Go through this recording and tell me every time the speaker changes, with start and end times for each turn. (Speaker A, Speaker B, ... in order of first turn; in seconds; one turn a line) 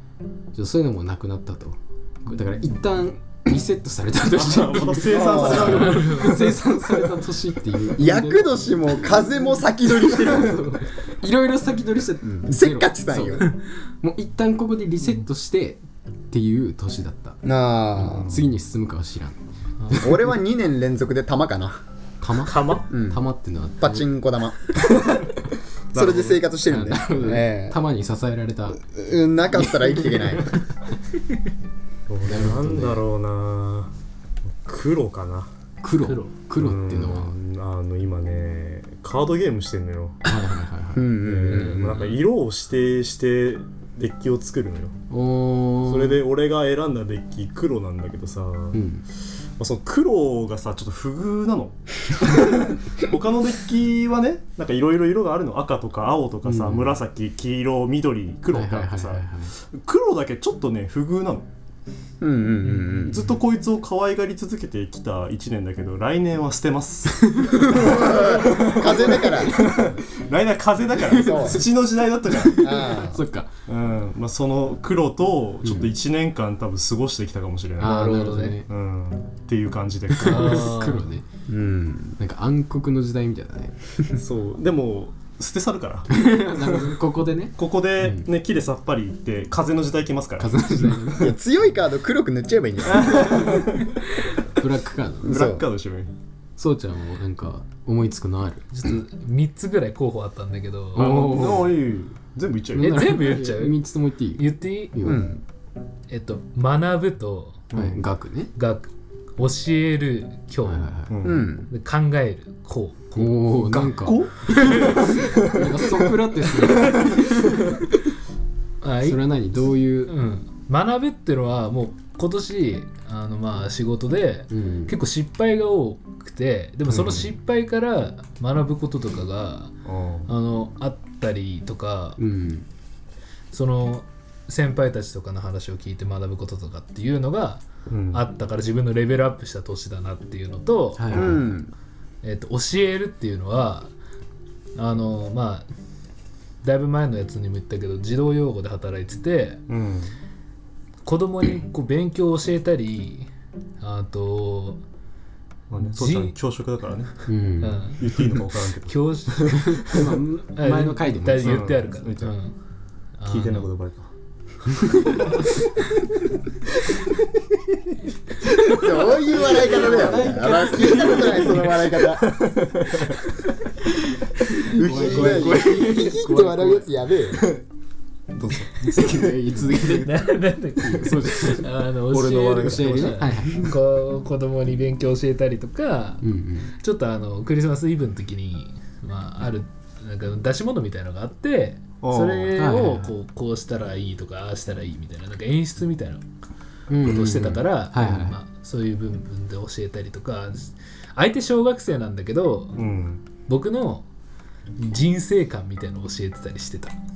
Speaker A: 0.5-9.2
Speaker B: 4.3-6.6
Speaker C: 5.1-6.0
Speaker D: 5.8-6.5
Speaker C: 8.0-10.6
Speaker A: 10.1-17.4
Speaker C: 12.2-13.5
Speaker C: 17.4-18.3
Speaker A: 17.9-20.1
Speaker B: 18.0-18.5
Speaker D: 19.8-20.1
Speaker C: 20.0-21.8
Speaker A: 22.2-24.1
Speaker B: 22.4-22.8
Speaker C: 22.9-23.2
Speaker C: 23.8-24.7
Speaker B: 25.9-26.4
Speaker C: 25.9-27.8
Speaker A: 26.7-28.8
Speaker C: 28.9-30.6
Speaker A: 29.5-30.6
Speaker B: 32.1-33.9
Speaker A: 32.2-33.0
Speaker B: 34.6-35.5
Speaker A: 35.8-37.3
Speaker D: 36.0-36.3
Speaker B: 36.6-40.2
Speaker A: 40.2-41.1
Speaker C: 40.9-41.8
Speaker B: 41.2-44.9
Speaker D: 41.5-42.2
Speaker A: 45.1-46.2
Speaker B: 45.9-48.8
Speaker A: 48.7-49.0
Speaker B: 49.6-61.5
Speaker A: 56.4-57.0
Speaker A: 58.5-59.5
Speaker C: 62.2-63.2
Speaker D: 62.6-63.2
Speaker B: 63.0-72.9
Speaker A: 67.3-67.7
Speaker C: 67.5-69.5
Speaker A: 71.1-71.6
Speaker C: 71.1-71.6
Speaker A: 72.3-73.5
Speaker C: 72.5-73.2
Speaker B: 73.7-80.8
Speaker A: 75.6-75.9
Speaker A: 77.8-78.7
Speaker D: 77.8-78.6
Speaker A: 80.1-81.2
Speaker D: 80.2-81.1
Speaker C: 81.5-82.2
Speaker A: 82.2-83.8
Speaker B: 84.1-87.0
Speaker A: 86.1-88.2
Speaker B: 87.6-91.0
Speaker A: 90.4-91.4
Speaker C: 91.2-93.6
Speaker B: 92.8-93.9
Speaker A: 94.6-95.4
Speaker C: 95.2-95.6
Speaker B: 95.2-96.1
Speaker A: 96.6-98.7
Speaker D: 98.7-101.1
Speaker A: 100.9-101.8
Speaker B: 100.9-103.3
Speaker D: 102.8-103.8
Speaker A: 102.8-105.3
Speaker D: 104.4-105.0
Speaker C: 105.0-105.4
Speaker D: 106.1-107.6
Speaker B: 107.7-108.0
Speaker A: 107.7-108.5
Speaker D: 108.5-110.9
Speaker A: 110.6-111.1
Speaker B: 111.1-111.5
Speaker C: 111.2-111.7
Speaker D: 111.7-113.5
Speaker A: 113.2-117.4
Speaker B: 113.7-115.9
Speaker D: 114.6-115.0
Speaker B: 116.8-117.1
Speaker D: 118.8-119.2
Speaker A: 119.0-120.1
Speaker D: 120.0-129.7
Speaker A: 124.5-124.9
Speaker B: 126.9-127.2
Speaker B: 129.8-130.3
Speaker D: 130.3-132.2
Speaker A: 132.2-132.7
Speaker D: 133.5-141.3
Speaker B: 137.9-138.2
Speaker A: 140.9-141.4
Speaker C: 141.1-141.7
Speaker D: 142.2-143.9
Speaker D: 144.8-145.7
Speaker D: 146.6-149.6
Speaker B: 149.7-150.1
Speaker D: 151.0-153.3
Speaker D: 153.8-154.8
Speaker B: 155.7-157.3
Speaker D: 155.9-156.3
Speaker A: 157.3-157.9
Speaker D: 157.6-158.0
Speaker B: 158.0-159.8
Speaker D: 158.8-162.5
Speaker A: 159.8-161.7
Speaker B: 161.4-162.3
Speaker D: 163.2-163.7
Speaker B: 163.2-164.1
Speaker A: 164.8-165.3
Speaker B: 168.5-169.7
Speaker C: 168.6-172.4
Speaker A: 168.9-171.8
Speaker B: 171.0-173.2
Speaker A: 174.4-176.9
Speaker C: 174.7-177.4
Speaker D: 174.8-175.6
Speaker B: 175.1-175.6
Speaker B: 177.3-177.6
Speaker B: 178.3-179.8
Speaker A: 178.8-181.7
Speaker D: 179.8-196.2
Speaker B: 182.1-183.3
Speaker A: 182.6-183.7
Speaker A: 186.2-186.7
Speaker B: 192.0-192.6
Speaker A: 192.5-193.1
Speaker A: 196.9-198.3
Speaker D: 197.0-202.8
Speaker B: 202.8-203.2
Speaker D: 203.4-204.1
Speaker D: 204.8-206.9